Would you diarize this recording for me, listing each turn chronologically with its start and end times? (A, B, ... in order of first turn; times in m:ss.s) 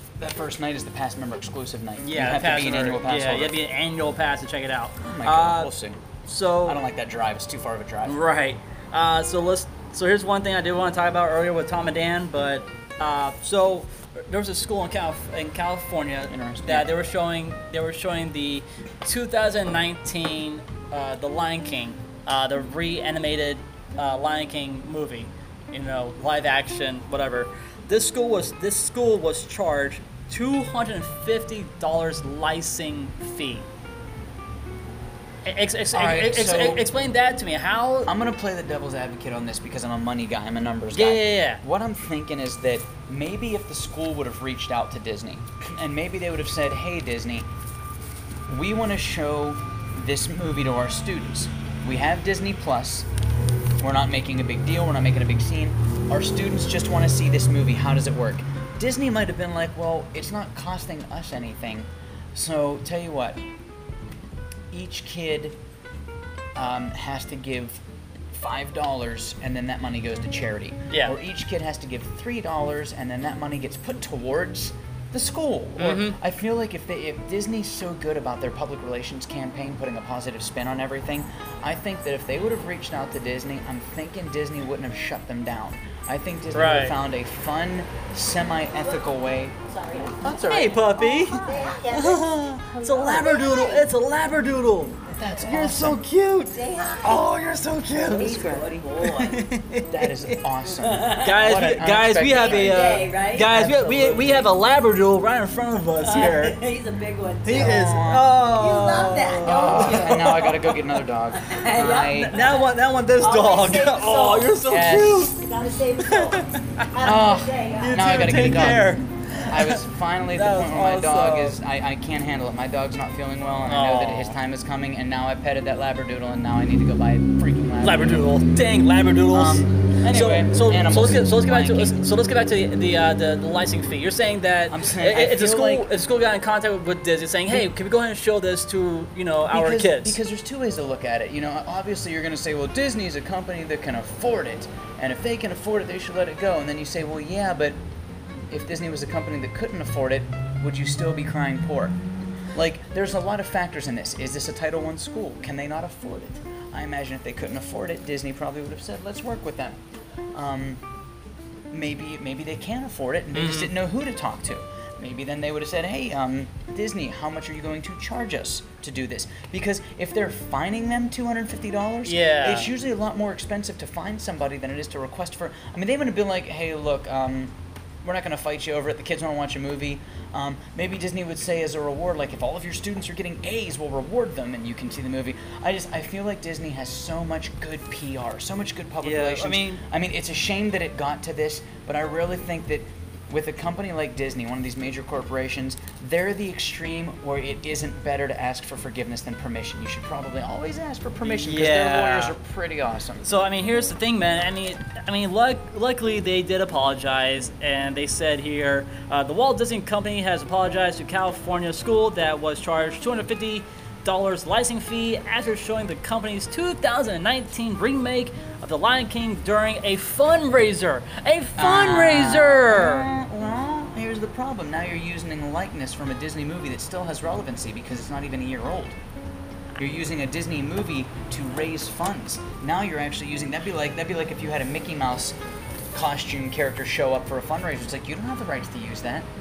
0:00.2-0:03.6 A
0:02.0-0:05.7 B
0:05.0-0:06.0 A
0:06.3-0:06.8 B
0:06.6-0:08.2 A
0:08.1-0:33.7 B
0:16.3-0:16.9 A
0:35.4-0:38.1 B
0:35.9-0:36.8 A
0:38.1-0:47.5 A
0:40.9-0:41.6 B
0:48.5-0:53.1 A
0:53.8-1:03.4 A
1:04.7-1:05.6 A
1:06.6-1:07.8 A
1:08.3-1:29.6 A
1:15.8-1:16.2 B
1:26.5-1:27.0 B
1:29.7-1:33.9 C
1:30.2-1:40.4 B
1:30.3-1:30.7 A
1:35.1-1:36.0 A
1:36.5-1:37.2 C
1:38.1-1:39.4 C
1:39.9-1:44.5 A
1:40.8-1:41.6 C
1:41.2-1:46.6 B
1:42.3-1:43.6 C
1:46.0-1:47.9 C
1:47.4-1:51.0 B
1:47.5-1:48.3 A
1:48.6-1:50.5 C
1:49.4-1:52.5 A
1:51.3-1:54.7 C
1:52.1-1:55.4 B
1:54.7-1:55.3 A
1:55.2-1:58.6 C
1:56.0-1:56.9 B
1:57.0-2:08.2 A
1:57.8-1:59.8 B
2:00.3-2:01.6 B
2:03.7-2:04.4 B
2:07.8-2:20.2 B
2:09.3-2:12.0 A
2:14.7-2:15.9 A
2:19.5-2:27.8 A
2:28.5-2:32.0 A
2:32.6-2:39.8 A
2:40.3-2:40.8 A
2:41.7-2:57.5 A
2:43.4-2:43.7 B
2:52.0-2:52.7 B
2:58.0-3:23.3 A
3:09.0-3:09.8 B
3:21.2-3:22.4 B
3:23.2-3:43.1 B
3:41.6-3:49.0 A
3:49.8-3:55.4 A
3:55.9-3:59.3 A